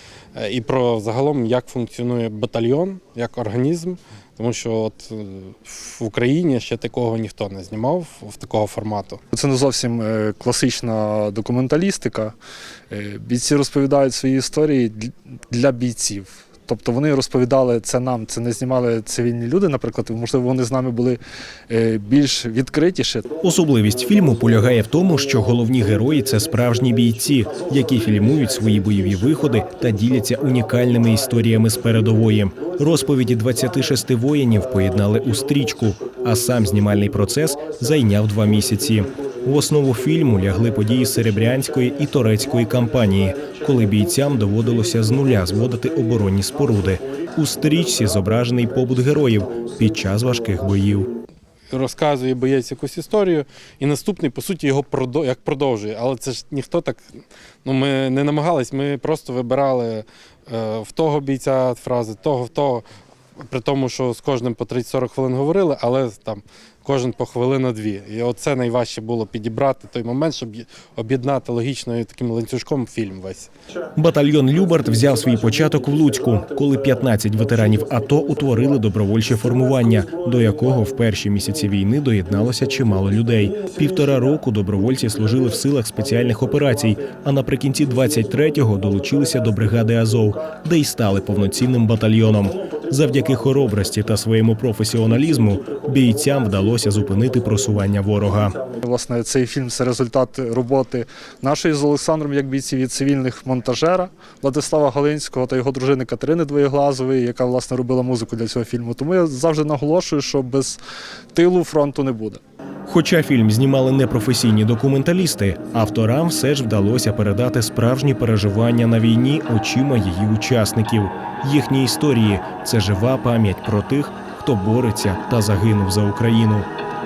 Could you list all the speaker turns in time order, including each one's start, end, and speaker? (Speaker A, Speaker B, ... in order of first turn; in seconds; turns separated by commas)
Speaker A: 0.4-9.2, Speaker B: 9.3-12.3, Speaker B: 12.9-23.3, Speaker C: 23.4-51.1, Speaker A: 51.7-57.0, Speaker A: 57.6-62.9, Speaker A: 63.4-73.5, Speaker C: 74.0-98.6, Speaker B: 98.8-110.8, Speaker B: 111.3-112.4, Speaker C: 112.9-126.7